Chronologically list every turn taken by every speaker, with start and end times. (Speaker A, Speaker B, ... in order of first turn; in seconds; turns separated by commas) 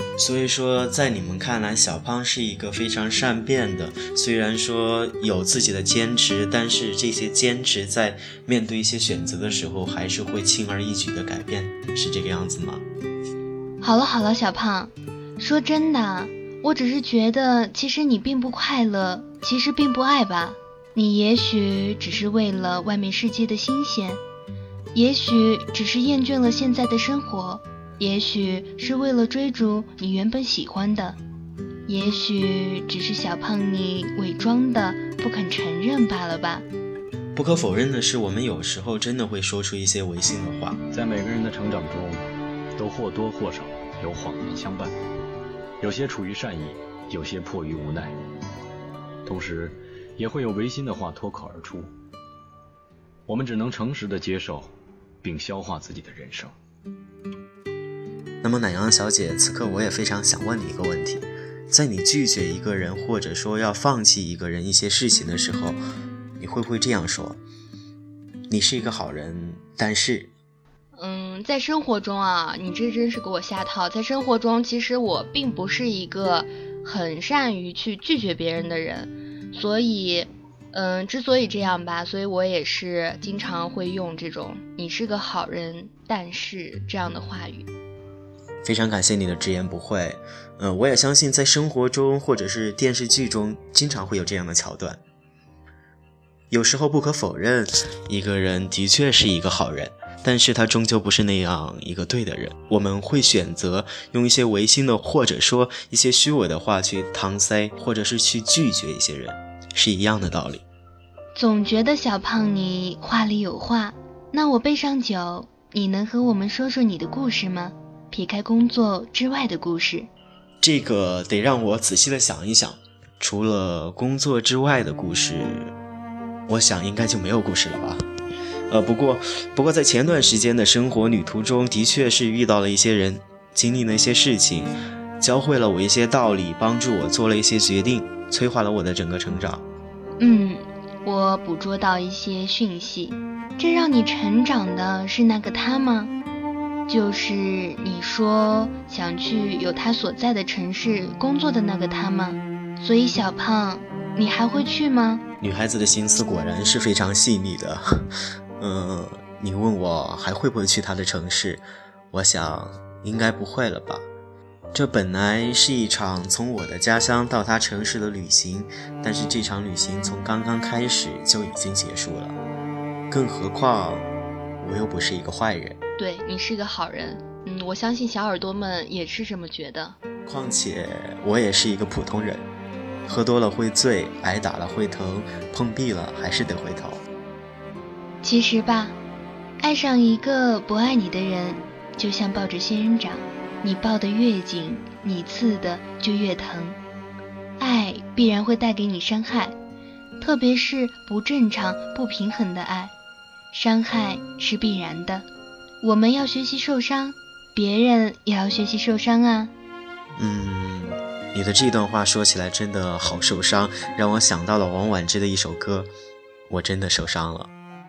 Speaker A: 0.2-12.8, Speaker B: 13.8-24.2, Speaker B: 24.9-31.2, Speaker B: 31.9-36.7, Speaker A: 37.4-40.8, Speaker C: 40.9-44.9, Speaker C: 45.8-48.2, Speaker C: 49.2-51.9, Speaker C: 53.3-56.5, Speaker A: 58.4-65.8, Speaker A: 66.4-67.4, Speaker A: 68.5-70.3, Speaker B: 71.0-87.7, Speaker A: 88.6-95.0, Speaker A: 96.5-110.6, Speaker B: 111.4-120.1, Speaker A: 120.6-125.8, Speaker A: 126.5-128.1, Speaker A: 128.7-139.7, Speaker B: 140.2-146.1, Speaker B: 146.9-155.2, Speaker A: 155.4-164.1, Speaker A: 164.7-172.4, Speaker A: 173.1-174.1, Speaker A: 174.6-175.8, Speaker B: 176.0-180.0, Speaker A: 180.3-182.5, Speaker A: 183.1-187.0, Speaker B: 188.2-188.9, Speaker B: 189.6-196.8, Speaker B: 197.6-199.6, Speaker B: 200.2-202.9, Speaker B: 203.5-205.2, Speaker B: 205.8-209.5, Speaker A: 210.2-215.9, Speaker A: 216.5-217.5